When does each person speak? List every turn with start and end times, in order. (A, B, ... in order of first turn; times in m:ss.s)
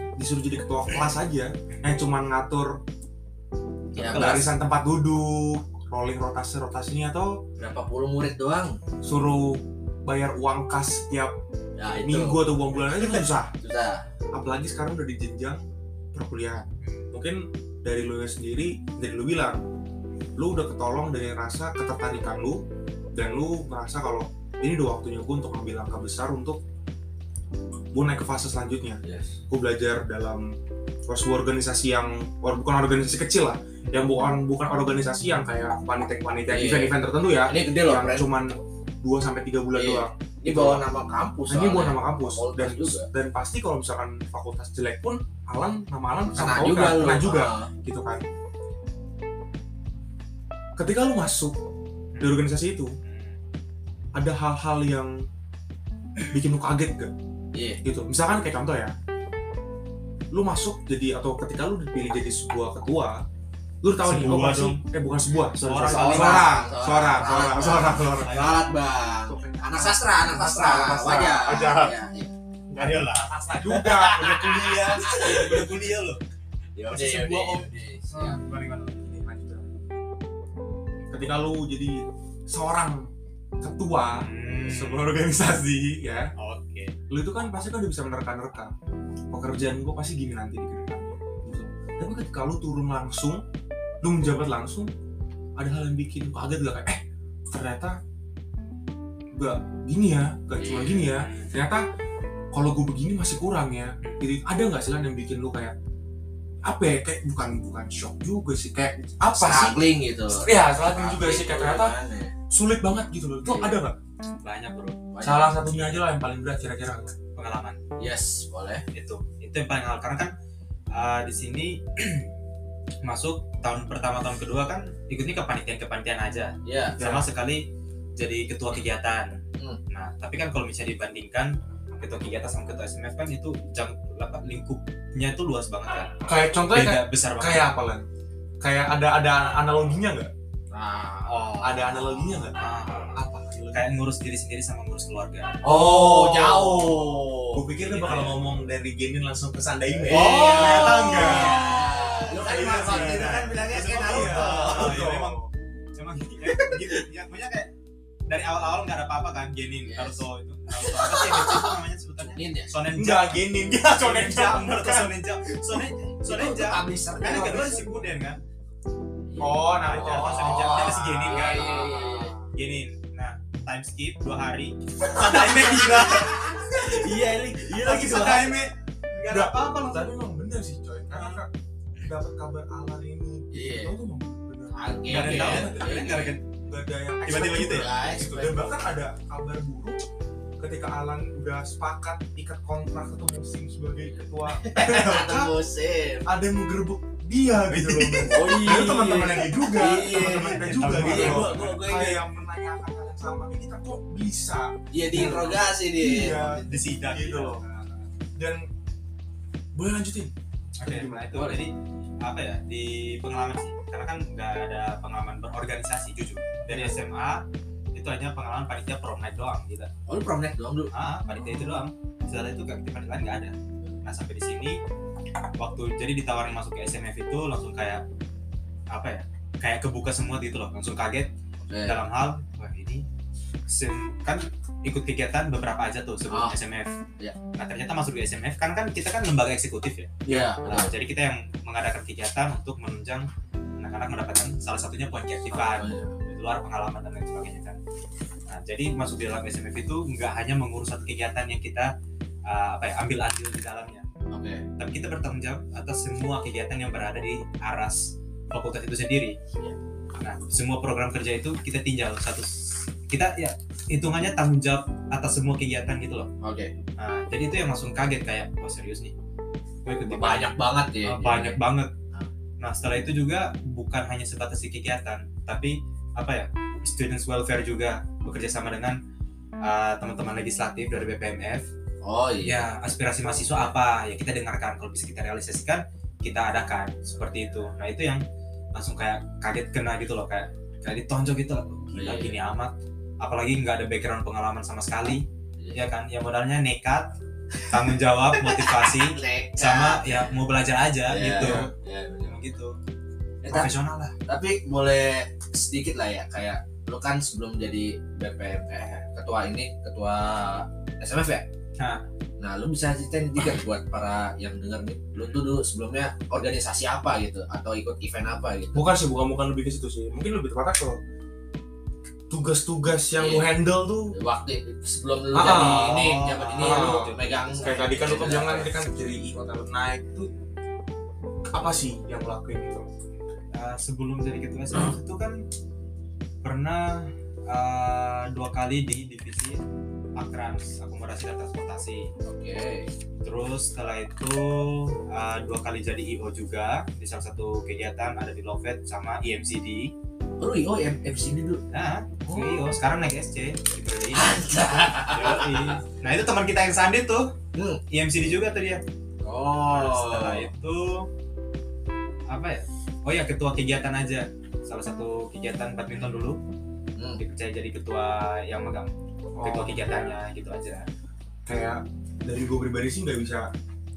0:00.2-0:02.8 A
0:04.0-0:04.5 B
0:04.0-0:07.4 A
0:04.0-0:04.4 C
0:07.6-0:08.8 B
0:09.0-0:11.4 A
0:11.8-0:14.1 B
0:12.0-0:13.5 A
0:14.3-0:19.6 A
0:16.8-0:17.1 C
0:20.4-0:22.6 A
0:23.1-0:26.6 A
0:27.9-0:30.5 A
0:29.0-0:29.4 B
0:31.1-0:40.8 A
0:36.5-0:38.3 B
0:39.7-0:43.1 B
0:41.5-0:48.2 A
0:46.4-0:47.7 B
0:50.8-0:51.6 A
0:52.1-0:52.5 C
0:52.2-0:53.0 A
0:53.0-0:53.4 C
0:54.1-0:55.2 A
0:56.2-0:57.1 A
0:57.5-0:57.8 B
0:57.8-0:58.9 A
1:00.3-1:03.2 A
1:03.8-1:08.6 A
1:04.0-1:04.8 C
1:05.5-1:06.6 C
1:05.8-1:12.3 B
1:07.4-1:08.7 C
1:09.2-1:11.9 A
1:12.7-1:15.0 A
1:12.7-1:16.2 C
1:14.6-1:15.7 B
1:16.8-1:18.4 B
1:16.9-1:19.2 C
1:19.0-1:19.7 A
1:21.1-1:23.1 A
1:23.6-1:26.3 A
1:24.1-1:25.2 C
1:26.4-1:27.0 C
1:27.1-1:28.7 A
1:29.3-1:33.4 A
1:34.0-1:34.9 A
1:35.6-1:38.0 A
1:39.4-1:41.8 A
1:40.6-1:41.5 C
1:42.5-1:45.8 A
1:44.0-1:44.3 C
1:46.6-1:49.8 A
1:49.4-1:52.3 B
1:50.3-1:52.0 A
1:52.5-1:54.0 A
1:53.4-1:53.8 B
1:54.4-1:55.0 C
1:55.1-1:55.7 B
1:55.2-1:57.2 A
1:57.4-1:57.8 C
1:58.0-1:58.8 B
1:58.9-2:00.3 C
2:00.9-2:02.3 C
2:03.0-2:09.4 C
2:06.6-2:07.0 B
2:07.0-2:07.3 A
2:09.9-2:16.2 C
2:16.2-2:18.1 A
2:16.7-2:17.7 C
2:18.6-2:20.3 A
2:20.7-2:22.2 B
2:21.3-2:21.9 C
2:21.6-2:22.6 A
2:22.6-2:23.2 C
2:23.1-2:23.9 A
2:23.7-2:25.6 C
2:25.6-2:27.7 B
2:25.6-2:31.8 A
2:27.8-2:28.4 C
2:30.0-2:35.0 B
2:30.1-2:35.4 C
2:32.3-2:35.5 A
2:36.0-2:37.7 C
2:36.5-2:37.0 B
2:38.3-2:48.4 C
2:39.8-2:40.2 B
2:40.7-2:41.8 B
2:42.3-2:42.8 B
2:43.0-2:45.2 A
2:46.2-2:48.0 B
2:49.3-2:52.4 B
2:49.4-2:52.5 A
2:49.8-2:51.8 C
2:52.5-2:57.1 C
2:55.1-2:58.7 B
2:57.6-3:00.1 C
2:59.3-3:01.5 A
3:01.1-3:01.4 C
3:02.0-3:10.0 A
3:03.5-3:04.0 B
3:04.7-3:06.4 B
3:05.1-3:06.4 C
3:07.3-3:07.9 C
3:07.6-3:08.8 B
3:10.6-3:15.5 A
3:14.5-3:16.3 B
3:16.2-3:27.6 A
3:17.6-3:18.7 C
3:18.3-3:22.2 B
3:19.9-3:21.8 C
3:24.9-3:26.6 B
3:25.2-3:25.5 C
3:26.3-3:28.1 C
3:28.4-3:28.7 A
3:29.8-3:31.4 A
3:30.8-3:39.9 C
3:31.3-3:31.6 B
3:36.7-3:37.0 A
3:40.1-3:40.9 B
3:40.9-3:44.8 C
3:45.6-3:48.0 C
3:48.9-3:51.3 C
3:51.6-3:52.0 B
3:51.8-3:53.0 C
3:53.7-3:57.0 C
3:56.3-3:56.6 B
3:57.6-4:07.8 C
4:00.3-4:00.9 B
4:05.5-4:06.2 B
4:08.5-4:11.9 C
4:12.5-4:14.1 C
4:14.3-4:14.6 B
4:14.8-4:19.4 C
4:20.2-4:26.3 C
4:26.4-4:26.7 B
4:27.0-4:29.1 C
4:29.8-4:31.9 C
4:30.0-4:31.6 B
4:32.6-4:39.0 C
4:39.6-4:41.7 C
4:42.0-4:42.7 B
4:42.4-4:48.2 C
4:48.8-4:57.2 C
4:52.0-4:52.3 B
4:55.6-4:55.9 B
4:57.6-5:00.3 B
4:57.7-5:01.7 C
5:01.1-5:02.5 B
5:01.4-5:01.7 A
5:02.2-5:02.8 C
5:03.4-5:03.7 B
5:03.5-5:04.2 C
5:04.3-5:11.5 B
5:11.8-5:12.0 C
5:12.4-5:18.9 B
5:15.1-5:15.4 C
5:18.7-5:21.0 A
5:22.3-5:24.2 A
5:23.2-5:23.5 B
5:24.1-5:28.7 B
5:25.3-5:26.1 A
5:25.4-5:27.9 C
5:26.6-5:30.3 A
5:31.5-5:32.9 A
5:33.5-5:35.4 C
5:36.4-5:39.6 C
5:40.2-5:42.1 C
5:42.2-5:42.9 B
5:43.2-5:49.9 C
5:50.4-5:51.6 B
5:51.7-5:54.4 C
5:52.2-5:52.7 B
5:54.1-5:55.8 B
5:55.1-5:57.4 C
5:57.5-5:57.8 B
5:57.9-5:58.8 C
5:59.2-6:00.5 B
5:59.7-6:01.1 C
6:02.3-6:06.4 C
6:07.0-6:07.2 B
6:07.2-6:08.9 C
6:09.4-6:10.2 A
6:09.4-6:10.9 C
6:11.5-6:13.5 A